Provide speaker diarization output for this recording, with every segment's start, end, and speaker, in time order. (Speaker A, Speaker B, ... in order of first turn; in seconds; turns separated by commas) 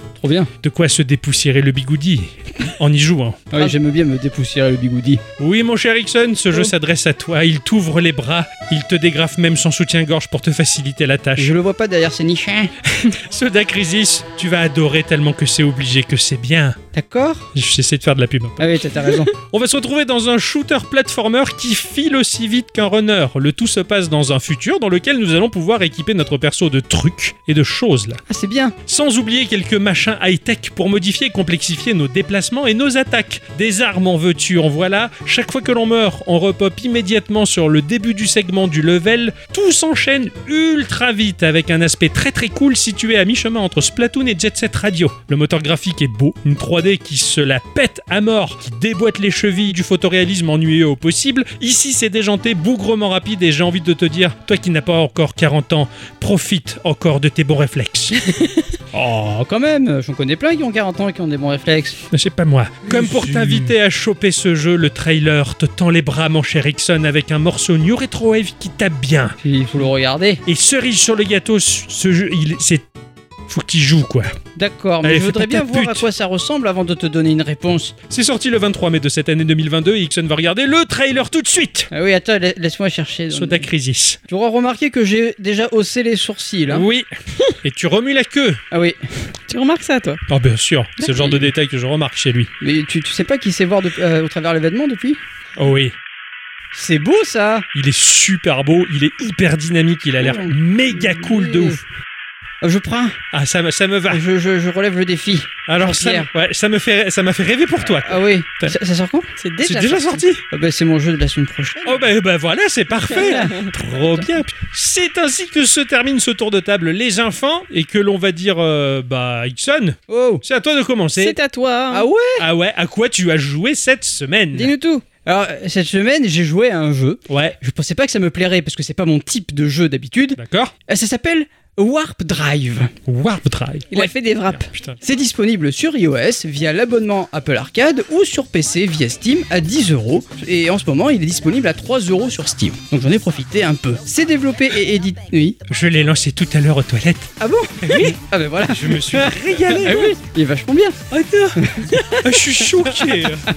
Speaker A: 0.2-0.5, Speaker B: 0.6-3.7, Speaker A: 3.5-5.2, Speaker B: 5.4-11.5, Speaker A: 11.4-12.7, Speaker B: 12.9-16.8, Speaker A: 16.9-17.5, Speaker B: 17.5-28.2, Speaker A: 18.6-19.3, Speaker A: 28.3-28.8, Speaker B: 28.9-58.2, Speaker C: 58.2-58.6, Speaker B: 58.9-59.2, Speaker A: 58.9-62.0, Speaker B: 62.1-69.3, Speaker A: 62.9-63.7, Speaker A: 69.4-70.4, Speaker B: 70.5-72.8, Speaker B: 73.5-74.3, Speaker A: 74.5-77.9, Speaker B: 75.0-76.0, Speaker B: 78.1-81.9, Speaker A: 81.9-83.7, Speaker B: 83.3-84.2, Speaker A: 84.3-86.9, Speaker B: 86.7-87.1, Speaker B: 87.6-88.6, Speaker A: 88.7-89.0, Speaker C: 89.5-90.2, Speaker B: 90.3-92.5, Speaker A: 92.6-95.2, Speaker B: 95.6-95.9, Speaker A: 96.7-97.7, Speaker B: 97.7-101.8, Speaker A: 100.2-101.8, Speaker A: 102.6-103.2, Speaker B: 103.3-104.2, Speaker A: 104.1-106.3, Speaker B: 105.7-108.7, Speaker A: 107.8-109.3, Speaker C: 109.4-110.2, Speaker B: 109.6-110.4, Speaker A: 110.5-112.1, Speaker B: 111.8-121.3, Speaker A: 113.1-113.6, Speaker A: 120.1-120.4, Speaker C: 121.2-122.1, Speaker A: 121.9-122.4, Speaker B: 122.4-124.7, Speaker C: 124.5-125.0, Speaker A: 125.2-132.9, Speaker B: 127.3-127.5, Speaker B: 130.4-130.7, Speaker B: 133.1-135.0, Speaker C: 133.9-134.7, Speaker A: 135.0-145.6, Speaker B: 145.7-150.2, Speaker A: 147.4-151.9, Speaker B: 151.1-153.5, Speaker C: 151.9-152.2